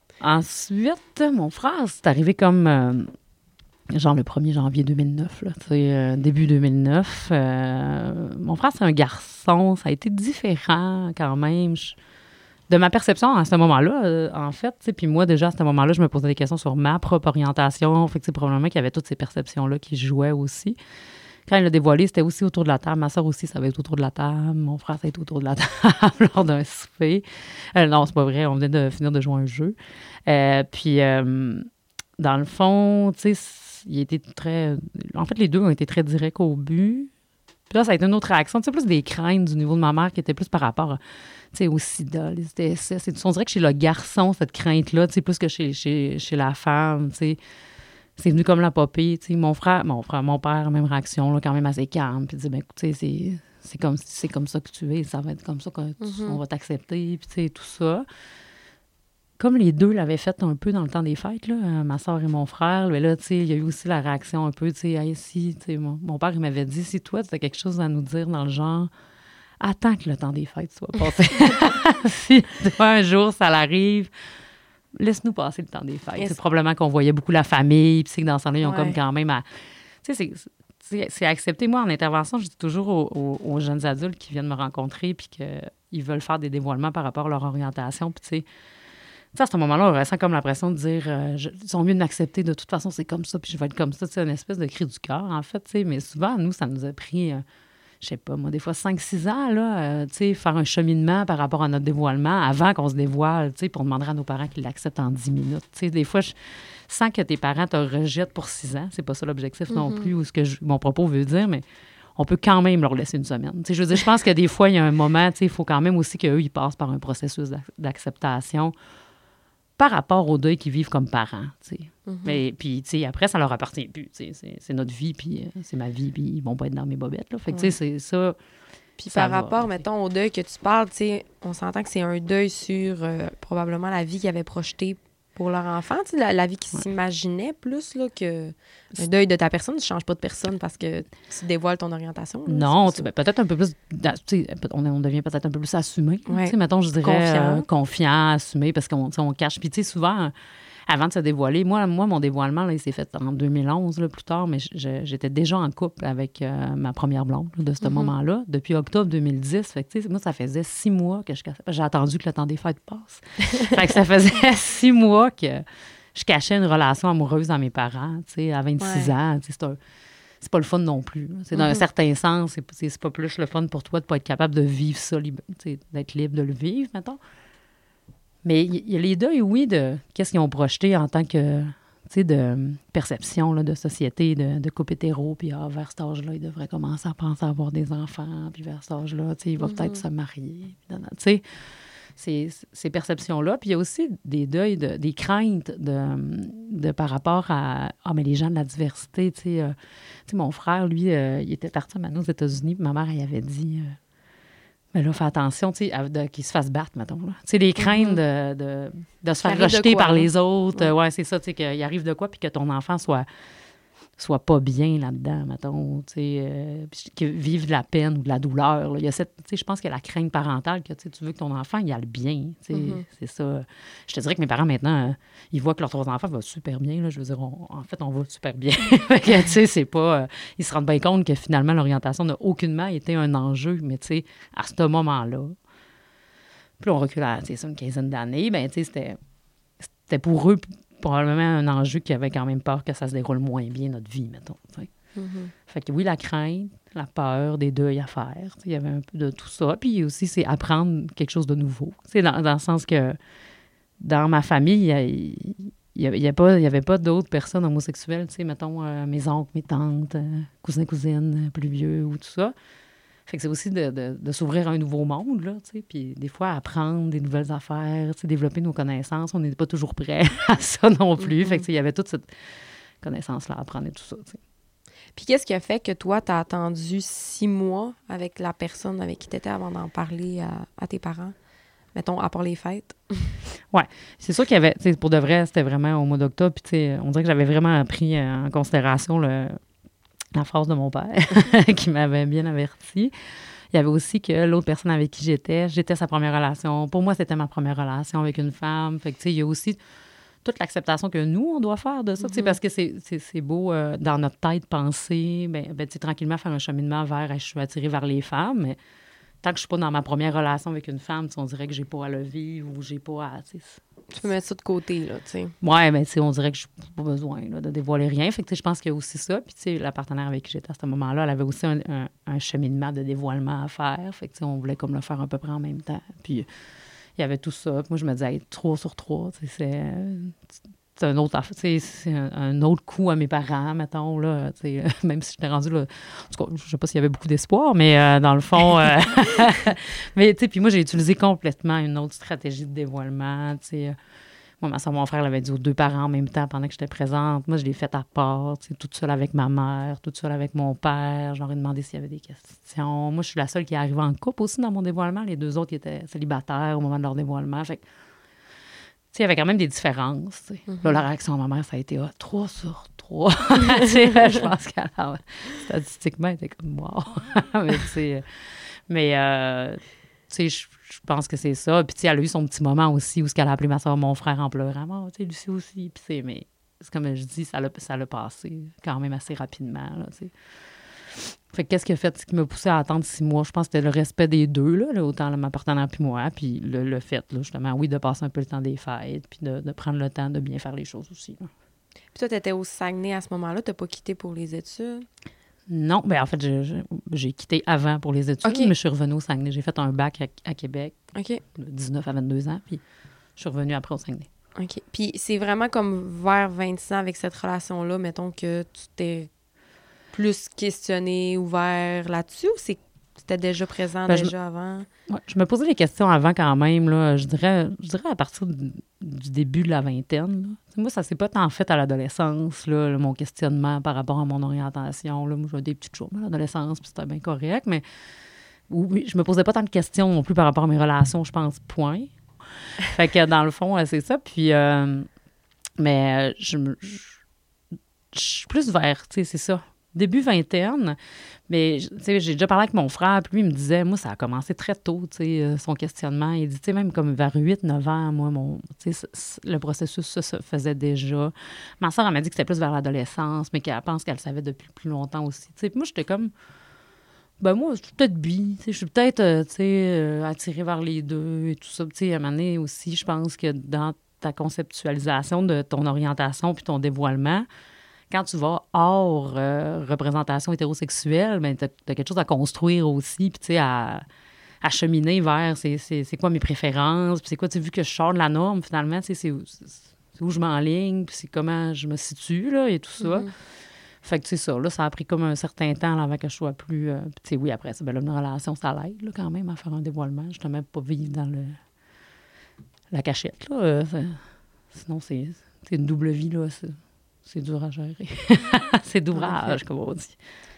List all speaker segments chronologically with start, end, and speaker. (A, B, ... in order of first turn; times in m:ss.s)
0:00.2-0:03.1 A
0:03.9-0:12.0 A
0:12.7-0:20.8 A
0:21.5-0:37.1 A
0:37.7-0:41.0 A
0:41.5-0:47.4 A
0:48.2-0:58.0 A
0:56.0-0:56.4 B
0:59.4-1:08.9 A
1:09.6-1:14.1 A
1:15.0-1:19.4 A
1:18.6-1:19.0 B
1:20.0-1:28.4 A
1:29.3-1:37.4 A
1:38.0-1:51.6 A
1:49.7-1:50.1 B
1:52.2-1:58.7 A
1:59.8-2:08.4 A
2:02.0-2:02.4 B
2:09.0-2:23.1 B
2:09.1-2:09.8 A
2:22.4-2:30.3 A
2:26.3-2:27.6 B
2:30.9-2:49.8 A
2:37.8-2:38.1 B
2:48.8-2:49.1 B
2:50.4-2:57.2 A
2:51.5-2:51.8 B
2:58.4-3:11.4 A
3:09.6-3:10.0 B
3:12.2-3:19.7 A
3:20.2-3:24.0 A
3:24.9-3:33.2 A
3:27.8-3:28.2 B
3:29.4-3:30.9 B
3:34.2-3:55.6 A
3:42.7-3:43.0 B
3:56.8-3:59.2 A
3:59.8-4:04.9 A
4:05.2-4:05.5 B
4:05.6-4:13.2 A
4:14.0-4:22.5 A
4:23.2-4:34.4 A
4:31.2-4:31.6 B
4:35.2-4:41.3 B
4:41.9-4:43.3 B
4:43.7-4:49.6 A
4:50.3-4:53.1 A
4:53.7-4:59.8 A
5:00.4-5:08.8 A
5:02.2-5:02.6 B
5:09.4-5:13.8 A
5:14.1-5:15.5 B
5:15.6-5:26.5 A
5:27.2-5:30.4 A
5:31.0-5:44.0 A
5:44.6-5:57.8 A
5:59.1-6:20.3 A
6:00.7-6:01.0 B
6:21.1-6:31.5 A
6:32.1-6:35.1 B
6:35.7-6:42.8 A
6:38.4-6:38.7 B
6:41.1-6:41.4 B
6:43.4-6:44.3 A
6:44.6-6:49.3 B
6:50.1-6:54.9 B
6:54.1-6:54.3 A
6:55.1-7:07.8 A
7:08.7-7:12.1 A
7:12.8-7:15.1 A
7:15.8-7:17.2 A
7:18.1-7:21.0 A
7:21.5-7:36.3 A
7:37.4-7:47.5 A
7:48.1-7:54.0 A
7:54.6-8:03.3 A
8:03.0-8:03.3 B
8:04.0-8:11.6 A
8:12.9-8:20.2 A
8:19.1-8:19.6 B